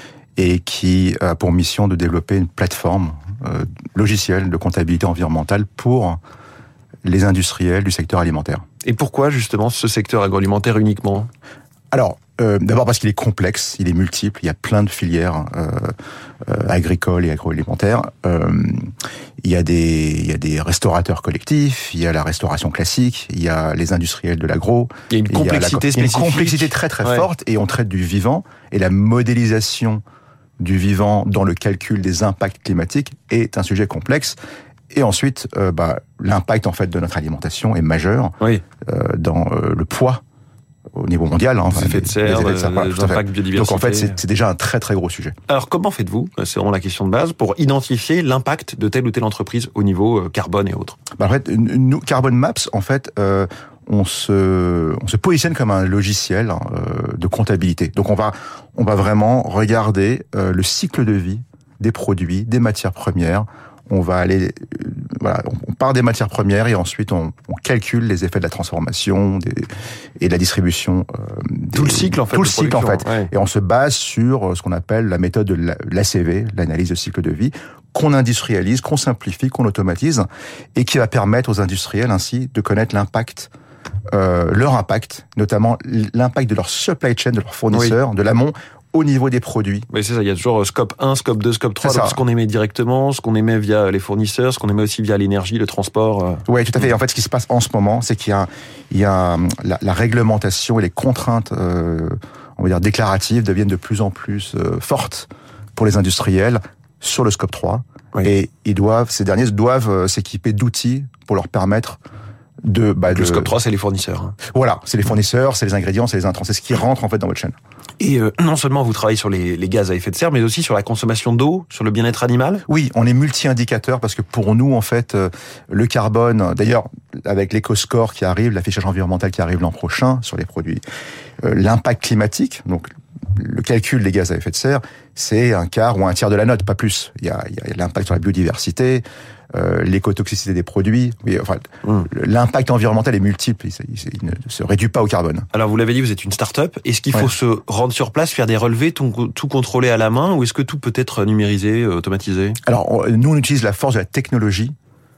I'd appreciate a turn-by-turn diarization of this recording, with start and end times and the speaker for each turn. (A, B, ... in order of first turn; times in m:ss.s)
0:00.4-0:06.2 A
0:07.0-0:08.6 A
0:08.8-0:11.3 B
0:11.9-0:15.9 A
0:16.4-0:18.9 A
0:19.4-0:30.0 A
0:25.1-0:27.3 B
0:30.6-0:34.4 A
0:34.9-0:40.2 A
0:41.0-0:45.4 A
0:41.7-0:44.2 B
0:45.5-0:51.0 B
0:51.2-1:23.5 A
1:11.7-1:13.3 B
1:24.1-1:29.9 A
1:29.9-1:36.4 B
1:31.8-1:32.2 A
1:36.5-1:52.0 A
1:52.6-1:53.5 A
1:53.1-1:54.4 B
1:54.5-1:57.6 A
1:58.0-2:02.6 B
2:02.7-2:10.8 A
2:11.4-2:25.5 A
2:25.5-2:32.6 B
2:32.6-2:34.7 A